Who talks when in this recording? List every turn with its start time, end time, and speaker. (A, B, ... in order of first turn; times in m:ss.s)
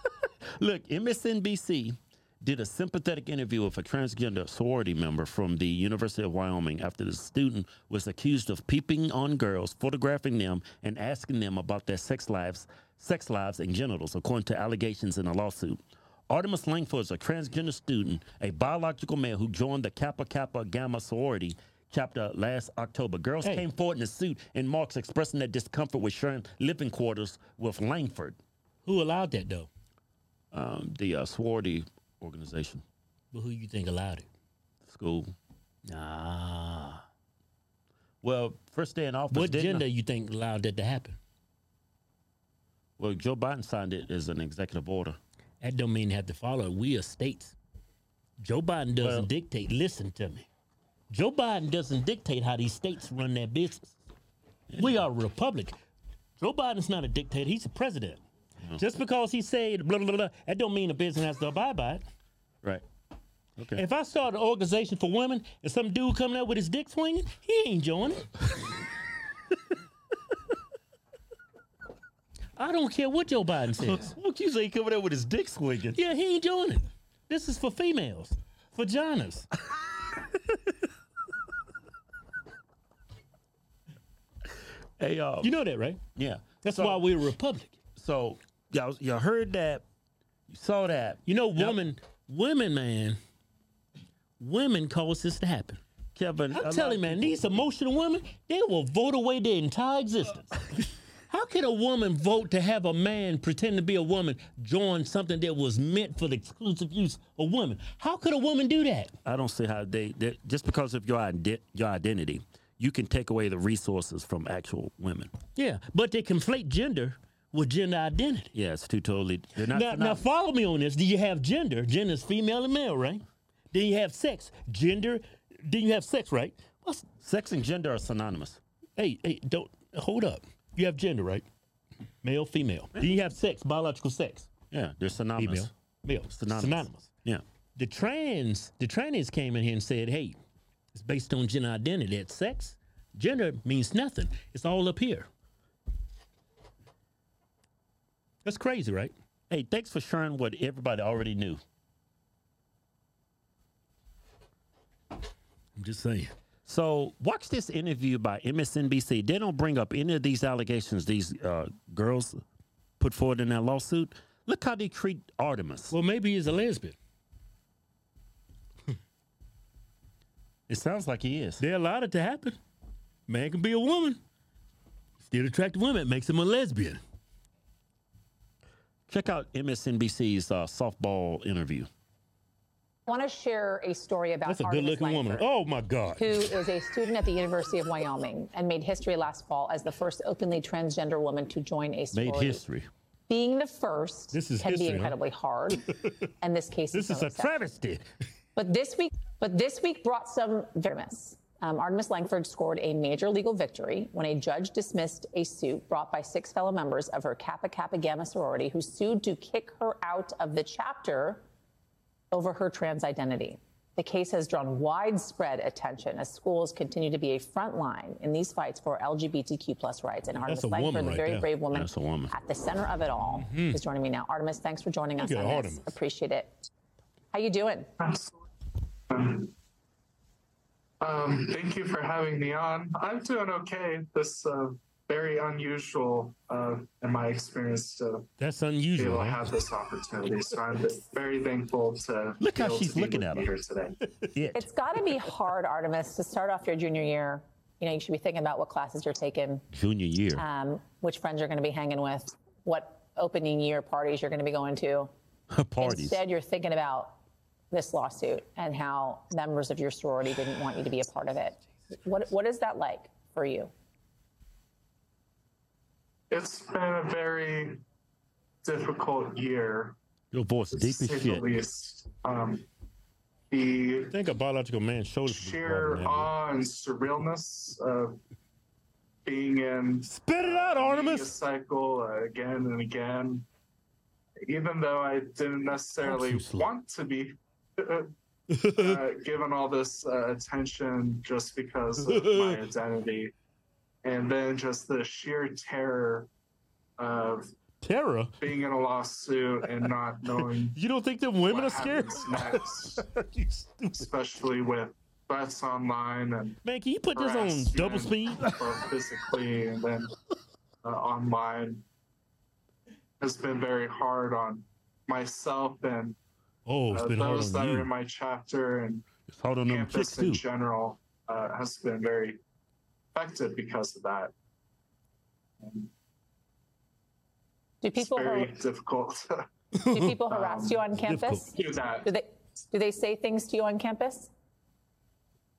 0:00.6-0:28.4 A
0:28.8-0:29.7 B
0:30.5-0:32.8 A
0:33.3-0:34.3 B
0:34.8-0:35.4 A
0:35.9-0:37.0 B
0:38.2-0:39.8 A
0:39.3-0:41.2 B
0:43.0-0:45.2 A
0:45.6-0:47.6 B
0:48.4-0:50.5 B
0:49.0-0:49.3 A
0:51.1-0:54.0 B
0:54.7-0:55.1 A
0:54.8-0:55.8 B
0:56.4-0:58.2 B
0:58.8-1:02.0 B
1:03.6-1:03.8 A
1:03.8-1:08.3 B
1:12.6-1:14.2 B
1:13.8-1:16.0 A
1:16.0-1:19.5 B
1:25.0-1:25.6 A
1:25.4-1:26.0 B
1:26.2-1:27.1 A
1:26.6-1:27.8 B
1:28.0-1:29.8 A
1:30.5-1:31.8 A
1:31.3-1:33.2 B
1:34.4-1:35.8 B
1:36.2-1:37.6 A
1:36.5-1:40.6 B
1:41.3-1:49.1 B
1:49.2-1:55.3 A
1:55.6-1:58.5 B
1:58.5-2:00.2 A
1:59.7-2:07.1 B
2:07.2-2:08.6 A
2:09.0-2:11.5 B
2:12.2-2:14.5 B
2:14.7-2:15.7 A
2:15.4-2:17.1 B
2:16.3-2:17.4 A
2:17.8-2:20.4 B
2:20.9-2:25.3 B
2:28.4-2:29.1 B
2:29.5-2:31.6 A
2:35.8-2:36.3 B
2:36.7-2:42.4 A
2:43.0-2:45.9 A
2:45.9-2:47.0 B
2:50.7-2:51.6 A
2:51.6-2:52.6 B
2:53.3-2:54.2 B
2:55.2-2:57.0 B
2:59.1-3:01.9 A
3:03.1-3:05.5 C
3:04.5-3:06.5 B
3:06.2-3:12.6 C
3:12.1-3:12.9 A
3:13.3-3:15.9 C
3:14.3-3:15.2 B
3:16.4-3:17.6 C
3:16.9-3:18.1 B
3:18.6-3:31.4 C
3:32.3-3:46.6 C
3:40.4-3:41.5 B
3:41.7-3:42.3 A
3:43.4-3:43.8 B
3:45.2-3:45.9 B
3:47.3-3:47.9 C
3:48.0-3:48.5 D
3:49.1-3:49.5 D
3:51.0-3:58.3 D
3:58.4-3:59.5 B
3:59.0-4:04.0 D
4:02.4-4:03.5 A
4:04.4-4:04.7 A
4:04.5-4:09.7 C
4:09.7-4:10.4 A
4:10.4-4:15.1 C
4:15.5-4:16.2 A
4:15.8-4:17.2 C
4:17.7-4:23.7 C
4:26.3-4:27.8 D
4:28.6-4:30.0 D
4:30.3-4:31.5 A
4:30.7-4:32.6 D
4:33.5-4:34.2 D
4:34.1-4:36.3 B
4:35.3-4:38.1 D
4:39.2-4:43.5 D
4:40.1-4:41.2 B
4:41.0-4:41.2 A
4:44.5-4:48.1 D
4:46.0-4:46.7 B
4:48.5-4:49.0 B
4:48.8-4:53.3 D
4:52.0-4:52.6 B
4:54.0-4:56.3 D
4:57.0-4:57.5 D
4:57.8-4:58.4 B
4:58.4-5:00.8 D
5:00.4-5:04.1 B
5:01.4-5:03.0 D
5:03.9-5:06.6 D
5:06.6-5:08.7 B
5:07.1-5:10.1 D
5:10.8-5:11.8 D
5:13.2-5:16.2 D
5:16.7-5:17.9 B
5:16.9-5:19.0 D
5:19.3-5:20.4 A
5:19.7-5:22.4 D
5:20.0-5:20.4 B
5:23.2-5:24.3 D
5:25.6-5:25.9 D
5:27.8-5:28.5 C
5:28.0-5:29.3 D
5:29.8-5:30.1 B
5:29.9-5:34.3 C
5:30.3-5:30.9 D
5:31.0-5:31.5 B
5:31.5-5:32.1 D